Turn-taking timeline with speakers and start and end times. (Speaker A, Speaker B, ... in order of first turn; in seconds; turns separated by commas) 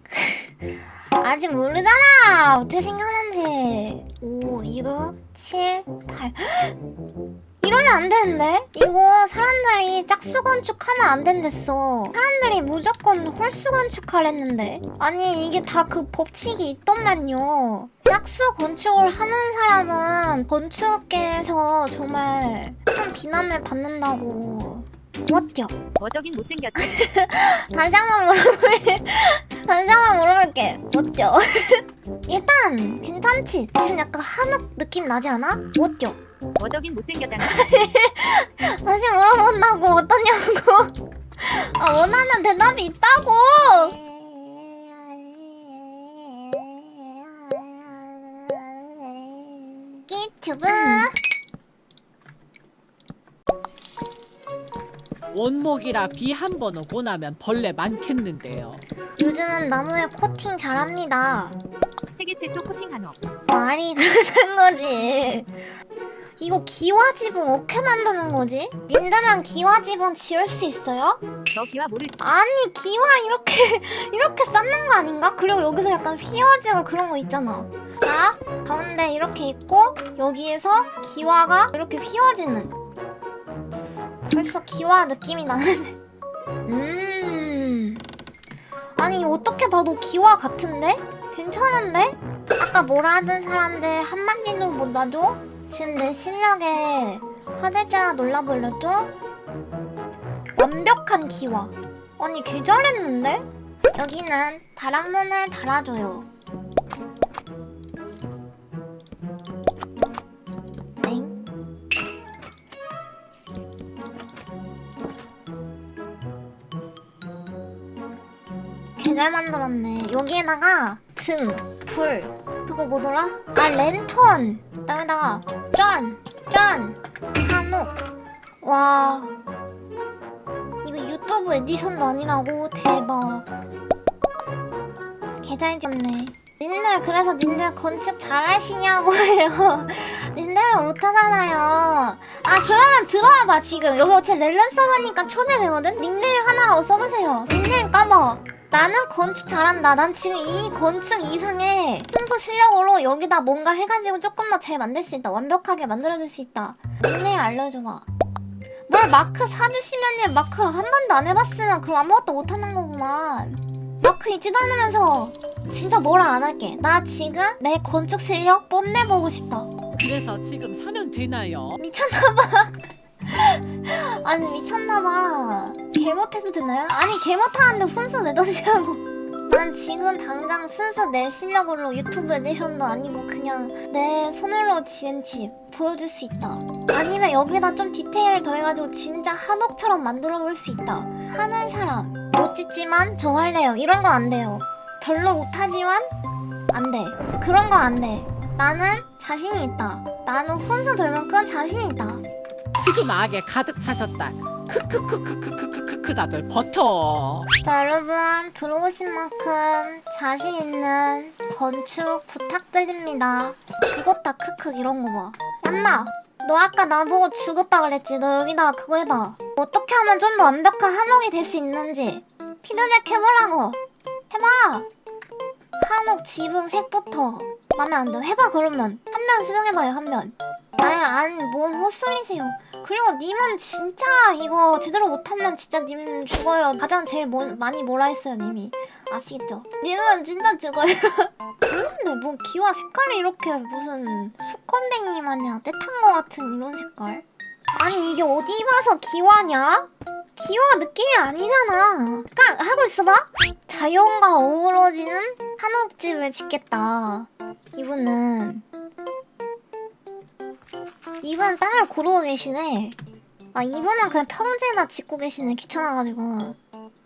Speaker A: 0.1-0.5, Speaker A: 1.2-6.8, Speaker A: 7.6-25.8, Speaker B: 26.0-26.9, Speaker A: 26.8-36.2, Speaker B: 36.6-37.7, Speaker A: 37.4-44.0, Speaker A: 50.1-51.1, Speaker C: 55.3-58.8, Speaker A: 59.2-61.6, Speaker B: 62.1-63.2, Speaker A: 63.5-65.5, Speaker A: 66.4-71.2, Speaker B: 71.5-72.2, Speaker A: 72.2-82.7, Speaker A: 84.3-86.0, Speaker A: 86.7-88.0, Speaker A: 89.0-99.1, Speaker A: 100.5-106.3, Speaker A: 111.0-111.4, Speaker A: 119.0-127.9, Speaker A: 128.6-129.3, Speaker A: 130.8-133.5, Speaker A: 135.4-158.1, Speaker A: 158.9-169.7, Speaker C: 169.9-171.8, Speaker A: 171.8-172.7, Speaker A: 173.2-196.1, Speaker A: 196.7-202.2, Speaker C: 202.7-207.5, Speaker A: 207.6-224.9, Speaker A: 225.8-247.2, Speaker A: 247.8-258.6, Speaker A: 261.2-263.0, Speaker A: 263.5-266.6